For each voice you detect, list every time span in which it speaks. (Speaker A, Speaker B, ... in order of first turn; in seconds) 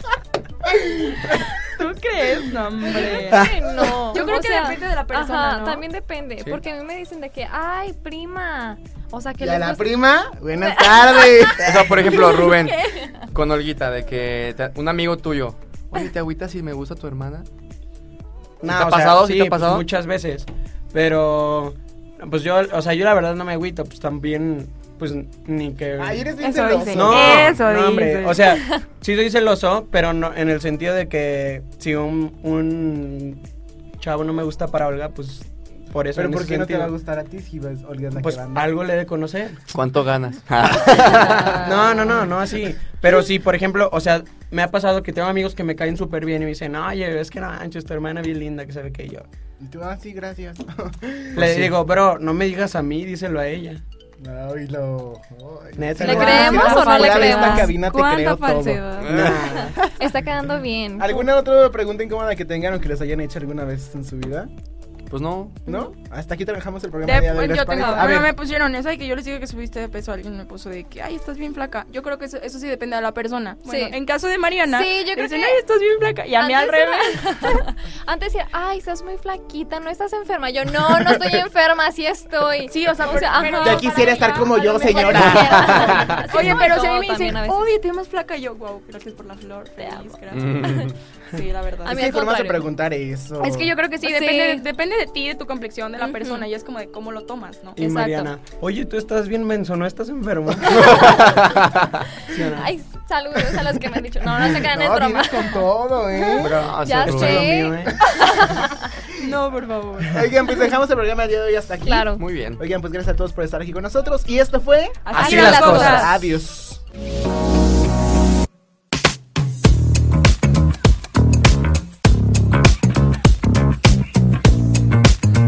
Speaker A: 0.7-1.6, 9.4-12.0, 26.0-27.6, 36.1-38.7, 49.6-51.6, 54.2-59.9, 61.0-64.5, 65.7-68.3, 80.8-81.4, 83.5-86.2, 91.9-93.7, 104.4-106.6, 110.1-116.8
Speaker B: 1.7-3.5, 4.1-5.8, 26.4-28.5, 56.0-59.4, 65.7-65.9, 67.0-77.7, 82.7-92.0, 93.4-97.8, 109.2-110.3, 115.0-116.1
Speaker C: 2.8-10.1, 10.6-13.3, 28.6-28.8, 41.1-41.9, 56.0-57.7, 59.6-61.3, 67.7-68.2, 73.7-74.0, 74.6-75.6, 76.4-87.7, 89.8-90.2, 91.8-92.7, 94.0-94.6, 96.0-96.5, 97.8-98.3, 100.7-101.4, 102.3-108.9, 111.8-112.3, 115.1-116.1
Speaker D: 3.3-4.0, 11.8-12.1, 18.6-26.3, 26.9-33.4, 34.0-36.9, 38.2-39.6, 41.6-49.3, 51.4-53.8, 55.8-56.8, 59.1-59.8, 97.8-101.2, 102.3-102.7, 106.4-108.0, 115.2-116.0
Speaker E: 11.6-17.5, 18.7-19.9, 39.7-41.8, 59.0-59.6, 65.1-65.6, 85.2-86.5, 90.3-91.0, 100.8-102.0, 106.5-107.6, 112.2-112.6